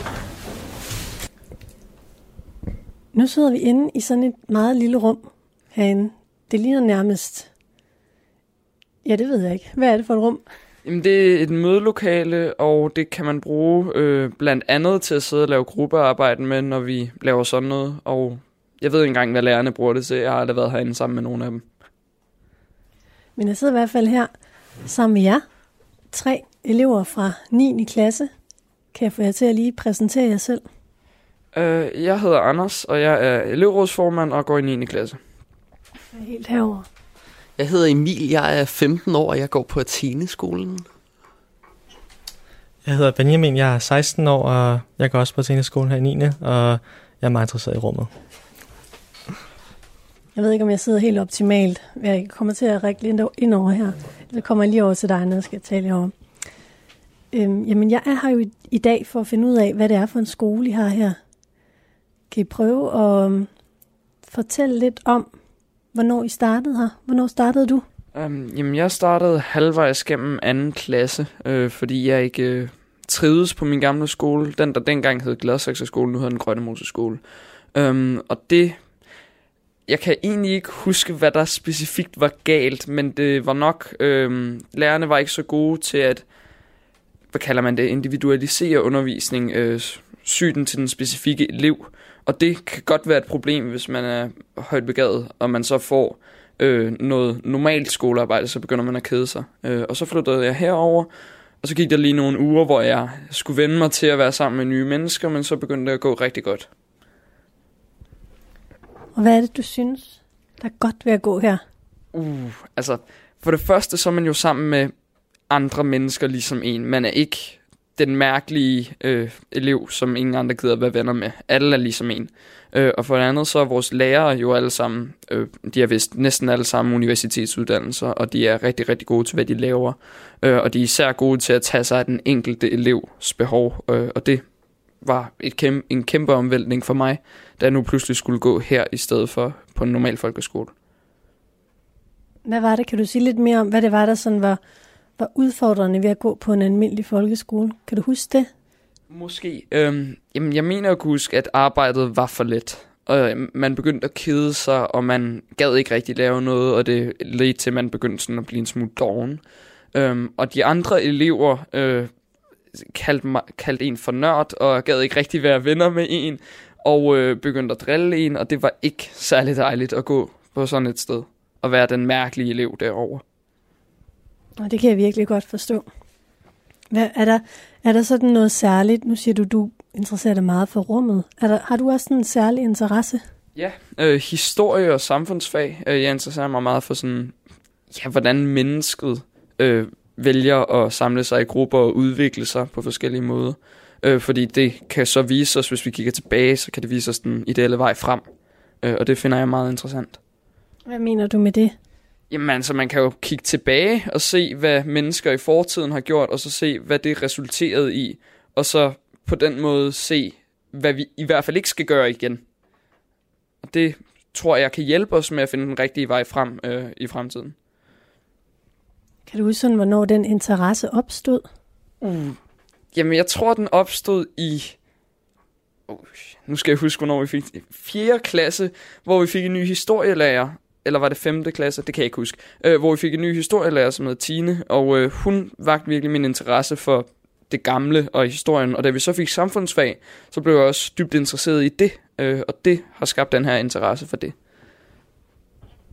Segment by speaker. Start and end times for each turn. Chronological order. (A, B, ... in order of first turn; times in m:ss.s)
0:03.1-0:07.5 A
0:09.0-0:10.4 A
0:10.8-0:21.6 B
0:23.4-0:24.3 A
0:24.8-0:25.4 A
0:26.1-0:28.3 A
0:28.9-0:30.6 A
0:31.5-0:35.2 B
0:36.1-0:36.9 A
0:37.6-0:40.8 C
0:42.8-0:48.1 D
0:50.4-0:56.1 A
0:57.3-1:01.2 A
1:02.3-1:03.5 A
1:04.3-1:05.3 A
1:05.9-1:07.8 A
1:08.1-1:17.2 B
1:17.7-1:19.0 B
1:19.9-1:26.3 B
1:27.3-1:41.1 B
1:41.6-1:46.7 B
1:49.2-1:51.6 A
1:52.1-1:54.9 B
1:55.5-2:14.4 B
2:15.0-2:20.7 B
2:22.4-2:24.6 A
2:25.2-2:28.5 A
2:29.1-2:42.1 B
2:42.7-2:53.2 B
2:54.6-2:55.9 A
2:56.9-3:03.2 A
3:03.6-3:07.4 B
3:07.9-3:18.3 B
3:18.8-3:20.2 B
3:20.9-3:21.8 A
3:22.3-3:32.4 B
3:33.6-3:37.6 B
3:39.3-3:41.5 A
3:42.0-3:42.4 B
3:42.9-3:44.8 B
3:45.9-4:04.4 B